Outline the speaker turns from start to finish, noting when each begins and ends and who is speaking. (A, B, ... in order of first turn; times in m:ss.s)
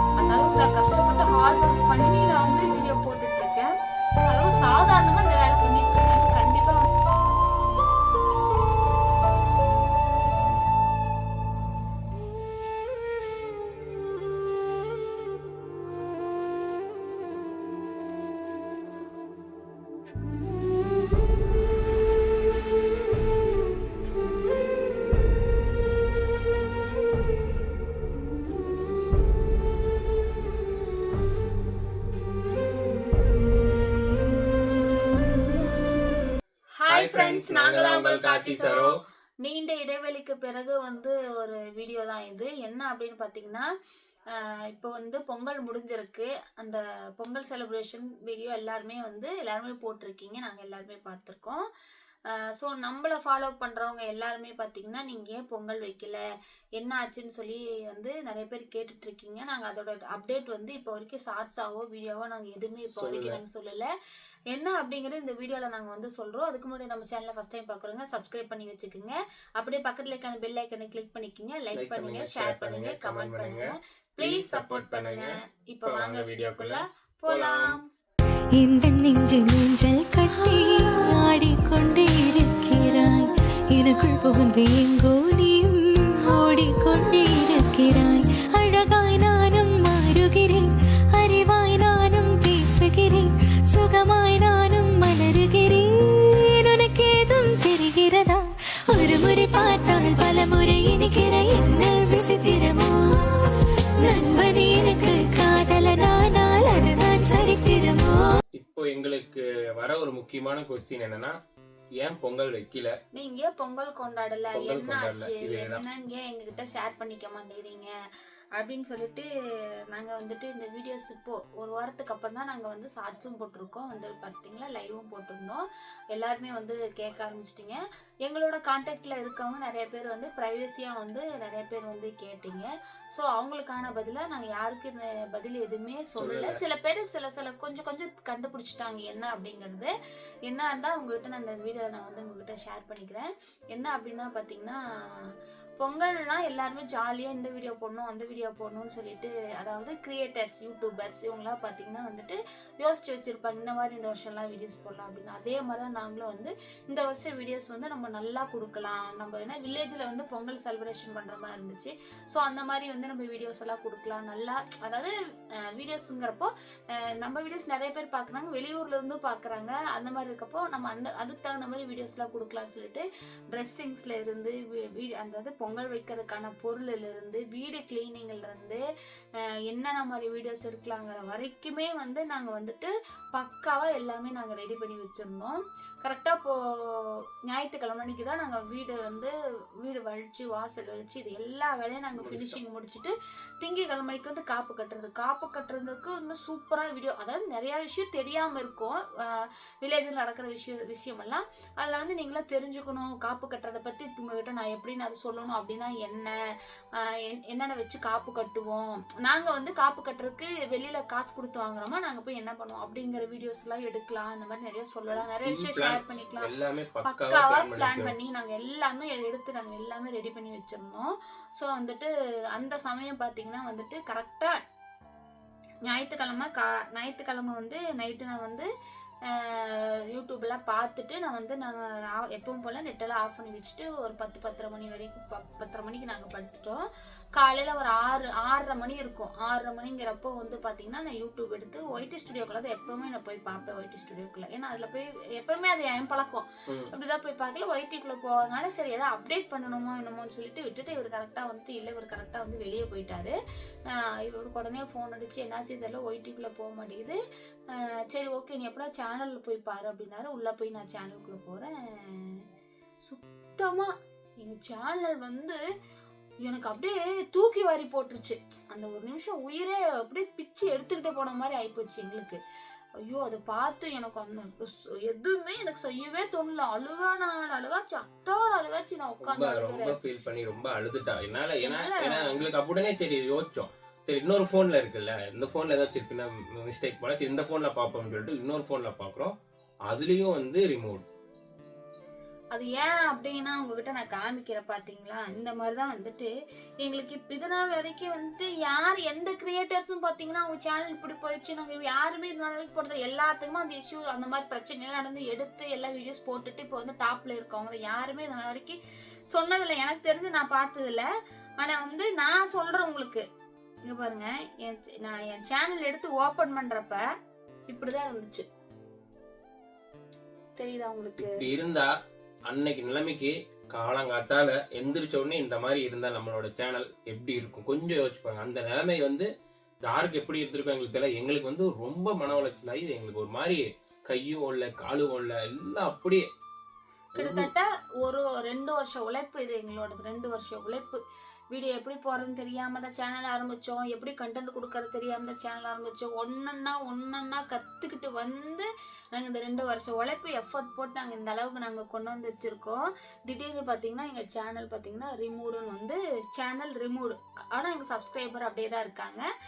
0:00.2-0:06.9 A
0:36.8-0:43.7 A
0:36.9-0:39.0 B
0:44.3-0:51.6 A
0:52.3-0:56.2 A
0:56.8-1:03.9 A
1:02.9-1:03.4 B
1:04.5-1:17.9 A
1:11.7-1:17.8 B
1:18.6-1:48.3 C
1:48.6-1:51.4 B
1:52.0-1:52.9 B
1:53.1-1:57.9 A
1:54.5-1:55.8 B
1:58.6-1:59.3 A
1:59.9-2:19.9 A
2:16.2-2:16.6 B
2:20.5-2:58.8 A
2:59.4-3:26.4 A
3:12.2-3:12.6 B
3:27.0-3:36.5 A
3:35.1-3:38.2 B
3:37.1-3:44.6 A
3:45.8-3:48.7 A
3:49.3-3:56.8 A
3:57.4-4:13.4 A
4:13.9-4:22.4 A
4:23.0-4:25.6 A
4:26.4-4:32.4 A
4:33.0-4:40.0 A
4:39.2-4:49.3 B
4:41.6-4:42.5 A
4:49.9-4:51.0 B
4:52.5-5:11.1 A
5:11.6-5:13.2 A
5:13.9-5:17.0 A
5:17.7-5:18.4 A
5:20.6-5:21.4 A
5:21.2-5:21.9 B
5:22.5-5:29.3 B
5:29.9-5:36.2 B
5:37.2-5:41.0 A
5:37.2-5:37.5 B
5:41.5-5:59.2 A